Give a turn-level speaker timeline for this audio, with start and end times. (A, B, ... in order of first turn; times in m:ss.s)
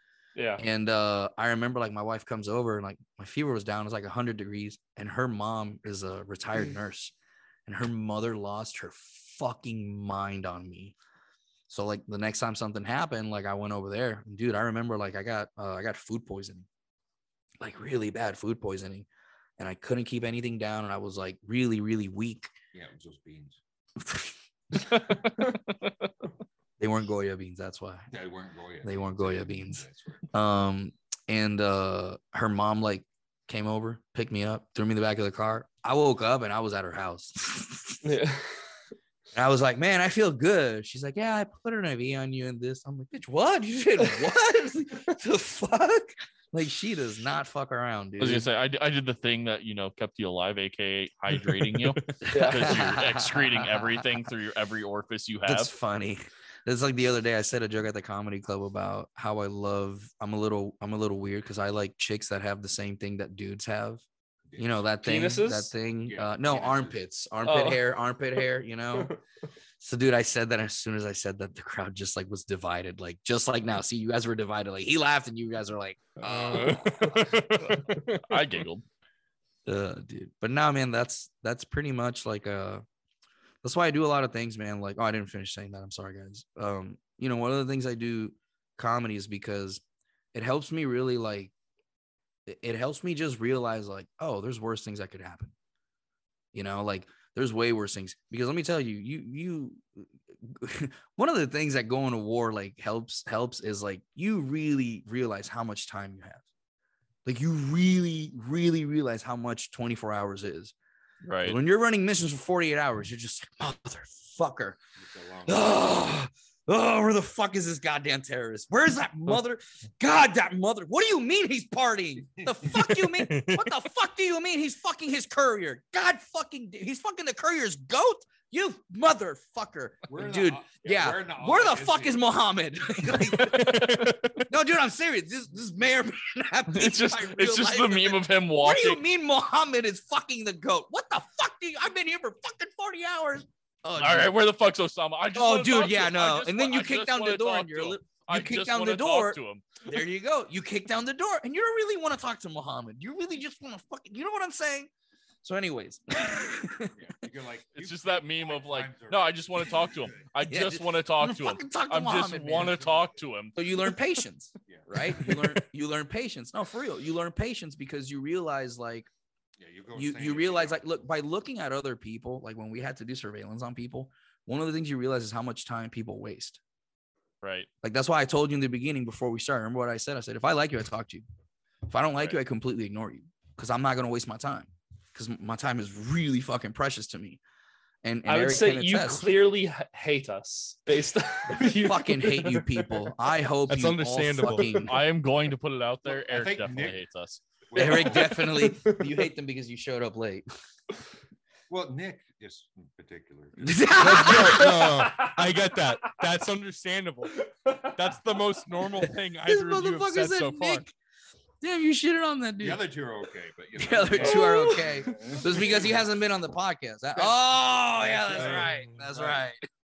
0:00.4-0:00.6 A
0:00.6-0:07.1 B
0:07.7-0:11.0 B
0:11.7-0:16.7 B
0:17.6-0:19.1 B
0:19.6-0:22.5 B
0:22.7-0:23.6 C
0:24.0-0:24.3 B
0:24.8-0:26.1 D
0:26.8-0:28.1 B
0:28.1-0:30.2 C
0:28.8-0:38.0 B
0:38.0-0:38.6 A
0:39.3-0:48.5 B
0:48.2-0:55.7 D
0:52.2-0:54.2 B
0:52.3-0:52.8 A
0:55.4-1:04.0 B
1:04.5-1:04.9 C
1:04.6-1:09.1 B
1:05.0-1:05.7 A
1:06.1-1:07.0 C
1:07.4-1:07.8 A
1:09.8-1:17.8 B
1:16.2-1:18.2 E
1:16.7-1:17.1 A
1:18.2-1:18.8 D
1:19.7-1:22.8 B
1:23.6-1:29.8 B
1:30.3-1:31.5 B
1:32.5-1:35.5 B
1:36.5-1:46.4 B
1:47.2-1:50.7 B
1:51.2-1:51.6 D
1:51.4-1:54.8 B
1:55.0-1:55.9 C
1:55.4-2:24.3 B
2:02.4-2:03.0 C
2:03.1-2:03.7 E
2:10.1-2:12.2 C
2:13.2-2:14.4 E
2:16.7-2:19.0 D
2:24.0-2:29.9 D
2:25.4-2:34.9 B
2:35.4-2:37.0 B
2:37.0-2:40.3 C
2:37.8-2:43.9 D
2:40.5-2:42.8 B
2:43.6-2:49.1 B
2:44.7-2:45.3 C
2:49.6-2:50.8 C
2:50.0-2:56.6 B
2:57.4-2:57.7 D
2:57.8-3:01.2 B
3:01.9-3:07.4 B
3:08.0-3:09.3 B
3:08.3-3:13.1 A
3:11.5-3:15.0 B
3:13.7-3:14.7 E
3:14.5-3:14.9 A
3:14.8-3:18.1 D
3:16.1-3:17.0 C
3:17.7-3:18.6 C
3:17.8-3:20.5 B
3:18.3-3:19.1 A
3:21.7-3:23.6 C
3:23.6-3:25.0 B
3:24.0-3:27.4 E
3:24.3-3:25.8 A
3:27.4-3:28.1 A
3:28.0-3:30.8 E
3:29.4-3:30.9 B
3:31.6-3:32.8 B
3:32.6-3:36.0 C
3:33.8-3:39.6 B
3:34.2-3:35.6 A
3:38.2-3:38.7 C
3:38.3-3:39.1 E